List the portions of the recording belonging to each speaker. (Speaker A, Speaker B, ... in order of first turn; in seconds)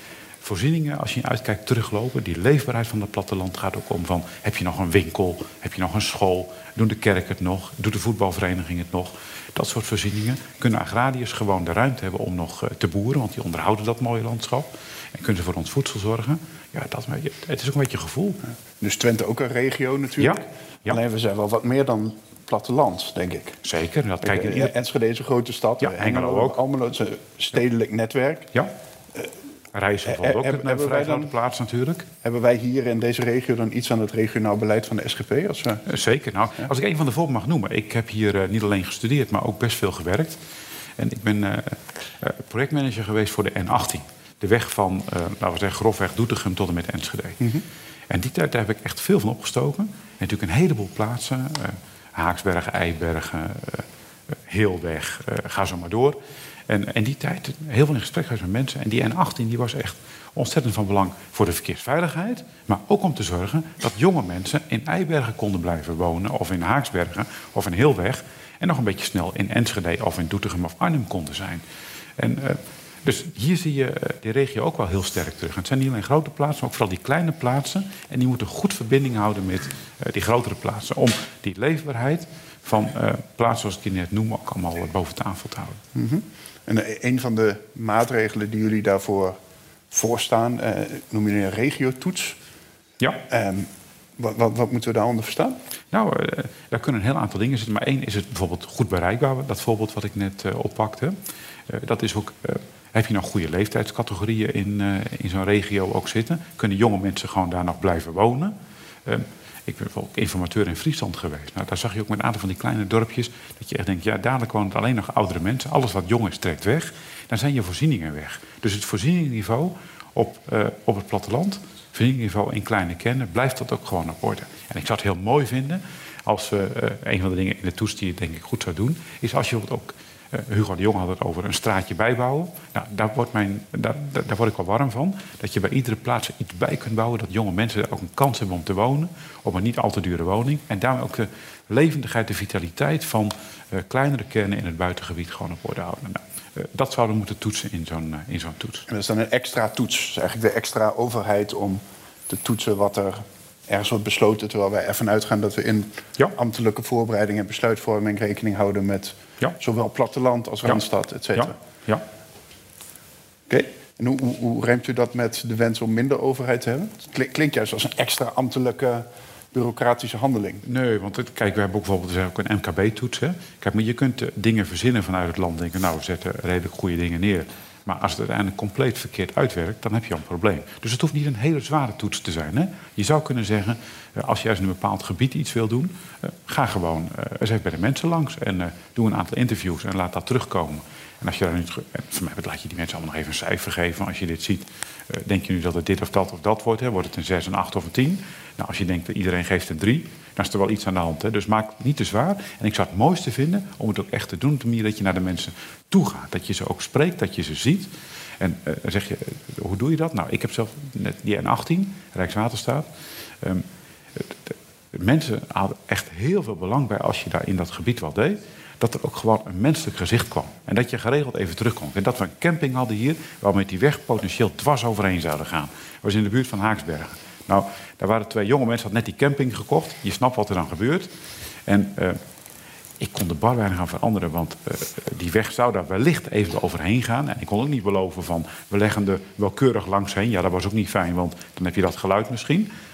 Speaker A: 0.4-18.4, 20.2-21.0, 23.6-24.7, 25.8-26.6, 29.7-32.1, 35.9-40.4, 41.0-47.4, 48.1-53.9, 54.5-71.6, 72.2-85.8, 95.9-101.2, 101.7-108.5, 109.0-148.8, 161.3-162.0, 170.6-207.9, 208.4-212.9, 213.4-231.1, 231.7-232.2, 233.0-242.7
Speaker B: 18.8-23.6, 24.2-28.5, 30.0-31.3, 32.2-35.8, 85.9-89.4, 89.9-92.4, 93.3-95.6, 148.9-161.5, 163.5-170.6